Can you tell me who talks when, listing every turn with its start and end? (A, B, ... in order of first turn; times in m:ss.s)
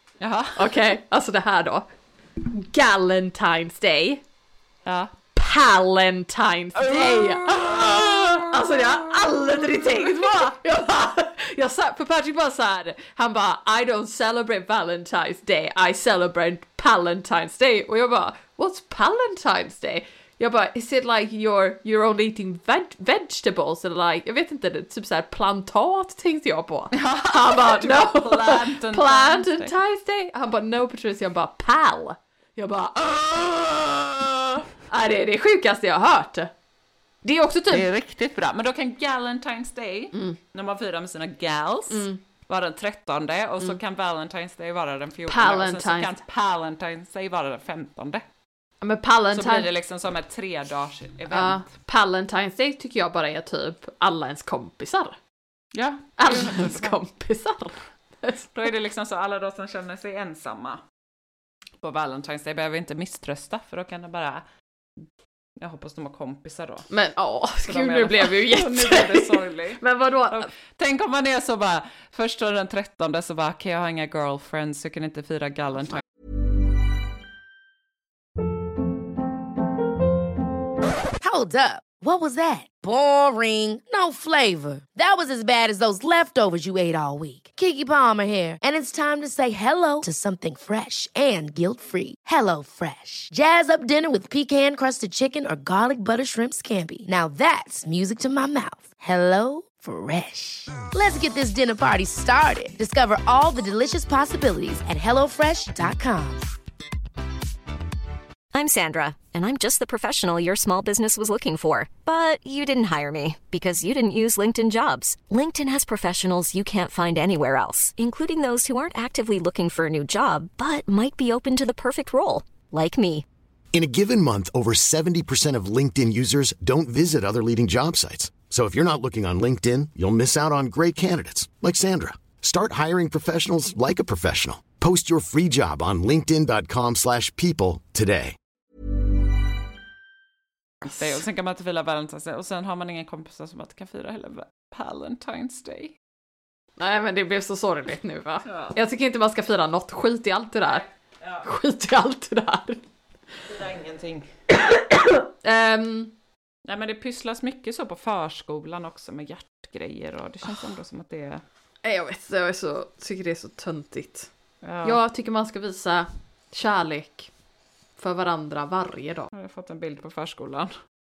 0:00.2-0:00.6 A
0:00.6-0:01.8 B
0:02.4-0:04.2 B
0:04.8-0:05.1 A
0:05.3-0:36.5 B
0:06.8-0:09.1 A
0:09.7-0:10.3 A
0:26.9-0:29.7 A
0:37.2-0:37.9 B
0:37.7-0:48.2 A
0:40.1-0:40.4 B
0:41.9-0:42.2 B
0:45.3-0:46.1 B
0:48.8-0:49.7 B
0:49.3-0:51.7 A
0:51.3-0:55.1 B
0:55.7-0:57.0 A
0:56.2-0:58.5 B
0:58.5-1:00.8 A
1:01.8-1:04.4 A
1:05.6-1:06.9 A
1:06.9-1:10.5 B
1:07.6-1:16.0 A
1:21.2-1:46.4 C
1:48.5-2:03.2 D
2:03.7-2:18.4 E
2:20.8-2:25.9 A
2:26.8-2:30.8 B
2:28.5-2:28.8 A
2:30.7-2:31.4 A
2:31.4-2:32.8 B
2:33.4-2:34.3 A
2:34.9-2:36.1 B
2:36.6-2:41.4 A
2:41.8-2:44.3 B
2:44.6-2:45.0 A
2:44.8-2:47.3 B
2:48.0-2:49.3 B
2:49.3-2:50.7 A